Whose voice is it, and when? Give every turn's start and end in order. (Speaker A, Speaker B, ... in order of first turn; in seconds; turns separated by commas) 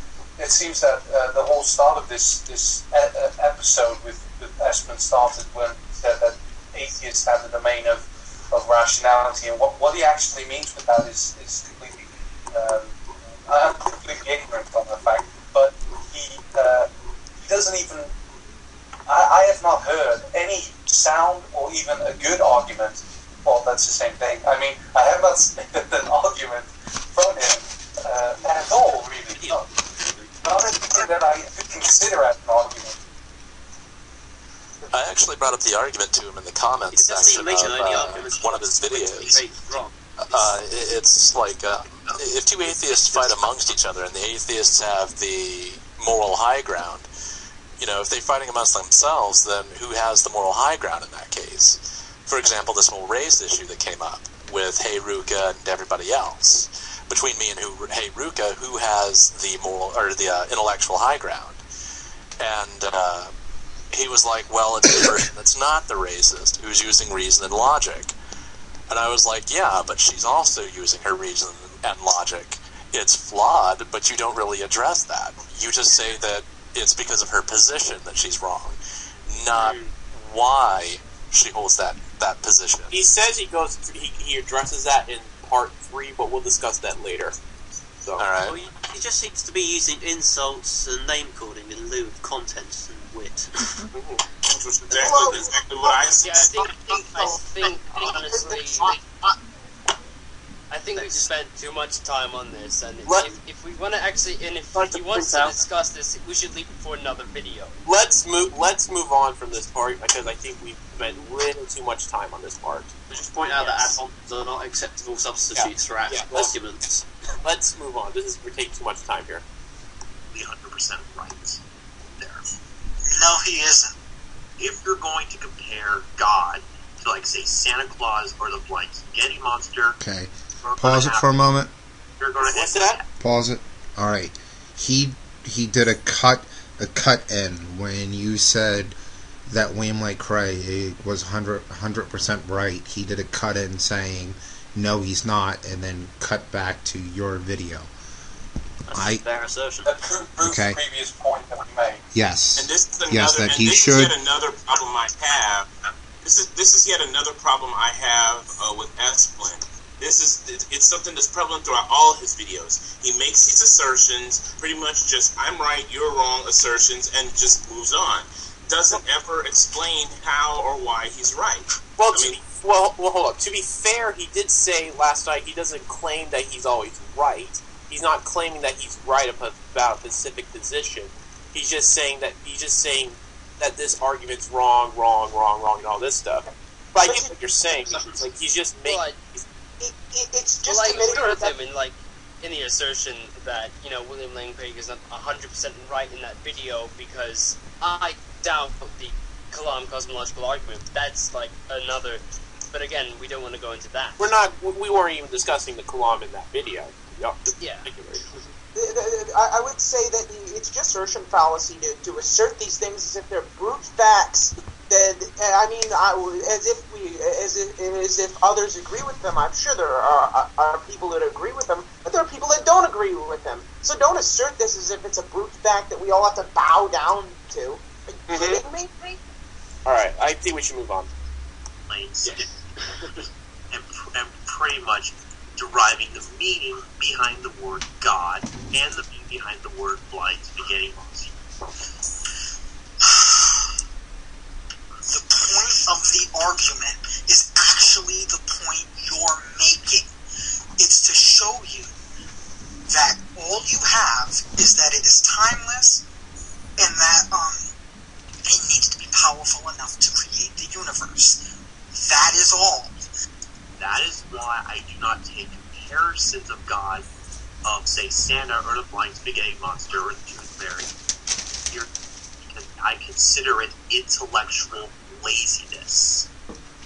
Speaker A: 0.4-16.9, Speaker A: 17.4-18.1, Speaker A: 19.1-29.7, Speaker B: 28.3-28.8, Speaker B: 29.3-30.4, Speaker A: 30.4-33.0, Speaker C: 34.9-39.4, Speaker B: 36.9-40.5, Speaker C: 40.2-47.1, Speaker B: 42.0-43.5, Speaker C: 47.8-61.6, Speaker C: 62.4-63.3, Speaker C: 63.9-68.1, Speaker C: 68.9-82.9, Speaker B: 79.5-79.9, Speaker D: 82.9-87.3, Speaker C: 88.2-88.6, Speaker B: 88.4-93.8, Speaker D: 93.9-94.2, Speaker E: 94.4-96.8, Speaker F: 95.0-95.4, Speaker G: 96.2-98.9, Speaker G: 100.7-107.7, Speaker B: 100.9-101.3, Speaker D: 103.0-103.3, Speaker D: 104.7-105.6, Speaker D: 107.8-112.9, Speaker B: 113.1-117.0, Speaker G: 113.5-114.0, Speaker D: 115.5-116.5, Speaker D: 117.4-119.4, Speaker H: 120.3-122.4, Speaker I: 123.1-123.9, Speaker H: 124.6-130.0, Speaker J: 130.0-131.7, Speaker H: 130.6-131.4, Speaker H: 132.2-133.1, Speaker D: 132.4-133.0, Speaker J: 133.2-147.9, Speaker B: 148.8-150.0, Speaker J: 148.9-149.2, Speaker A: 149.8-152.0, Speaker J: 150.4-150.8, Speaker J: 152.1-154.1, Speaker E: 152.5-155.7, Speaker E: 156.2-172.4, Speaker D: 172.0-189.4, Speaker F: 187.0-187.3, Speaker B: 187.9-188.2, Speaker G: 188.8-189.2, Speaker F: 189.8-191.6, Speaker G: 190.6-204.3, Speaker D: 204.2-208.2, Speaker G: 207.6-207.9, Speaker F: 208.7-229.2, Speaker D: 228.3-228.6, Speaker D: 229.8-231.1, Speaker H: 231.9-232.5, Speaker D: 232.2-232.5, Speaker H: 233.7-241.3, Speaker I: 243.0-243.7, Speaker I: 245.1-250.1, Speaker I: 250.8-251.9, Speaker I: 252.9-256.0, Speaker I: 256.8-257.7, Speaker I: 258.4-261.4, Speaker I: 261.9-262.9, Speaker H: 263.8-267.1, Speaker H: 267.6-270.9, Speaker H: 272.4-276.3